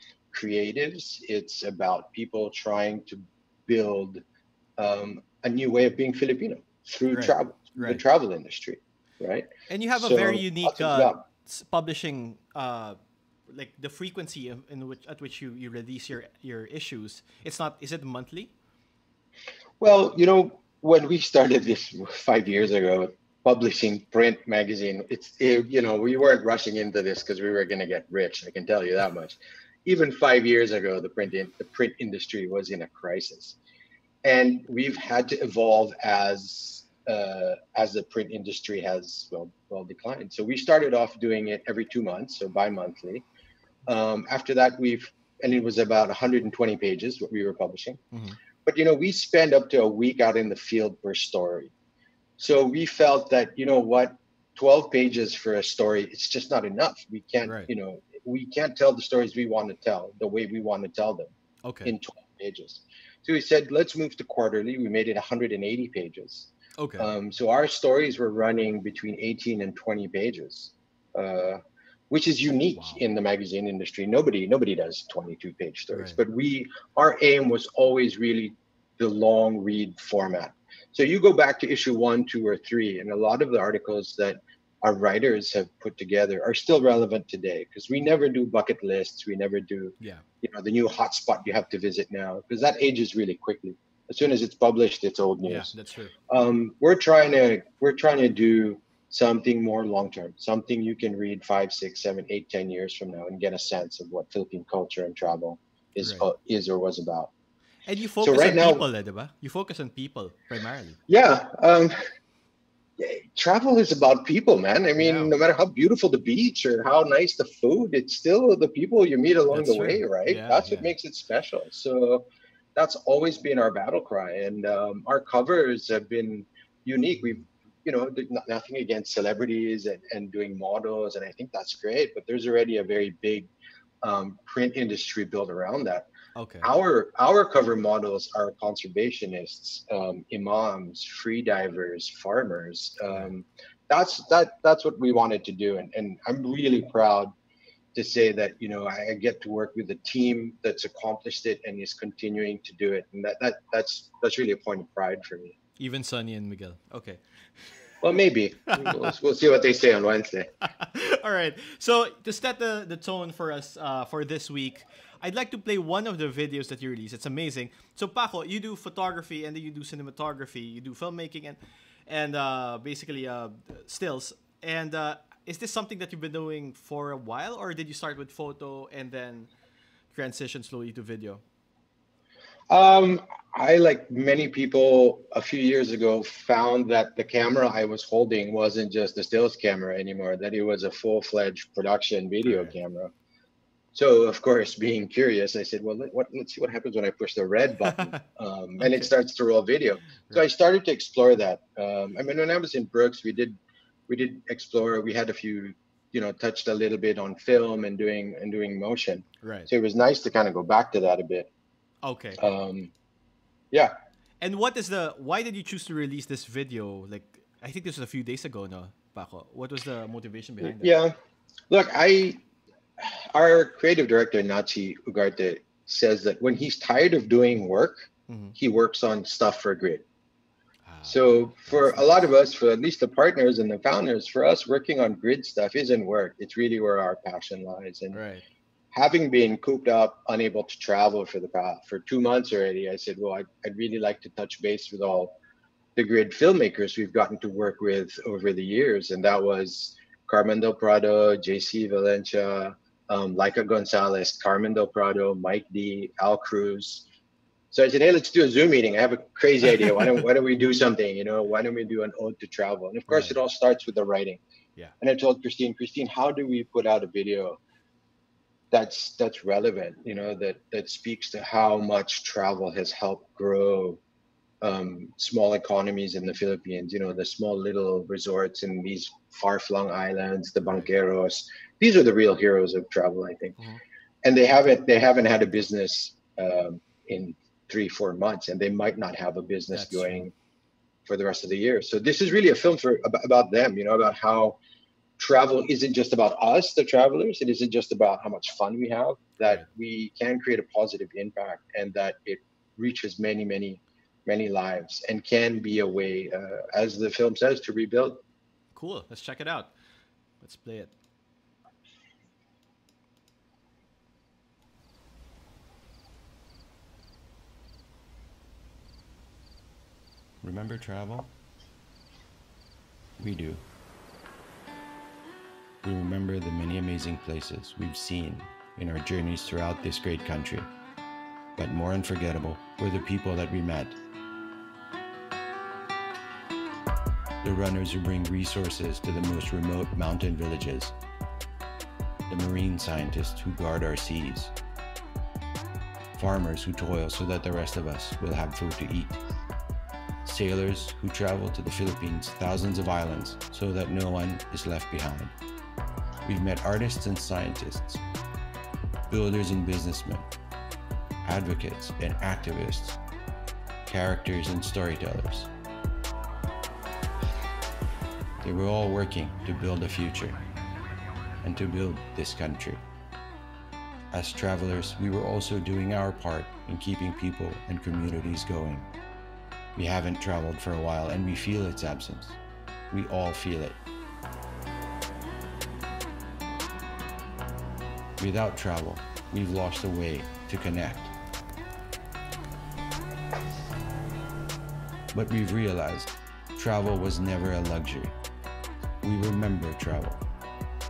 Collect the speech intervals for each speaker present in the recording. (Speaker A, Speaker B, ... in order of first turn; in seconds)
Speaker A: 0.3-4.2, 4.8-11.2, 19.8-33.6, 34.2-43.2, 43.9-48.0, 48.6-51.7, 52.4-61.3, 61.8-95.7, 96.3-107.3, 108.2-108.8, 111.1-111.9, 113.0-133.5, 134.0-136.1, 136.6-147.3, 147.9-155.6, 158.0-160.5, 182.7-193.1, 193.9-211.5, 212.4-212.9, 220.6-221.1, 221.7-222.4, 223.0-230.0, 231.0-238.2, 238.9-245.3, 245.9-257.1, 257.7-264.4, 265.0-267.6, 268.7-274.0, 274.6-283.6, 284.2-290.3, 291.1-294.6, 295.2-308.2
Speaker B: 7.1-8.0, 9.7-13.0, 13.5-18.5, 61.6-61.9, 66.8-67.1, 75.9-76.2, 95.4-96.1, 106.0-106.3, 107.8-111.0, 115.0-115.3, 119.5-120.9, 136.3-136.7, 155.8-157.2, 158.7-159.1, 160.7-179.5, 180.1-181.4, 192.4-192.7, 197.9-198.2, 198.8-199.1, 209.4-209.7, 212.0-212.4, 214.4-220.9, 228.3-228.5, 230.9-232.3, 238.1-238.4, 263.1-263.3, 289.7-290.2, 308.7-309.7, 310.4-310.9
Speaker C: 320.4-321.3, 323.2-323.6, 325.8-330.7, 331.6-334.0, 337.4-340.9, 342.3-344.5, 346.1-349.2, 350.2-355.3, 356.2-358.0, 359.1-360.3, 361.2-363.0, 363.9-365.5, 368.4-370.4, 371.4-372.8, 374.1-378.9, 379.7-382.4, 382.9-383.8, 388.2-391.1, 395.1-398.1, 399.0-400.2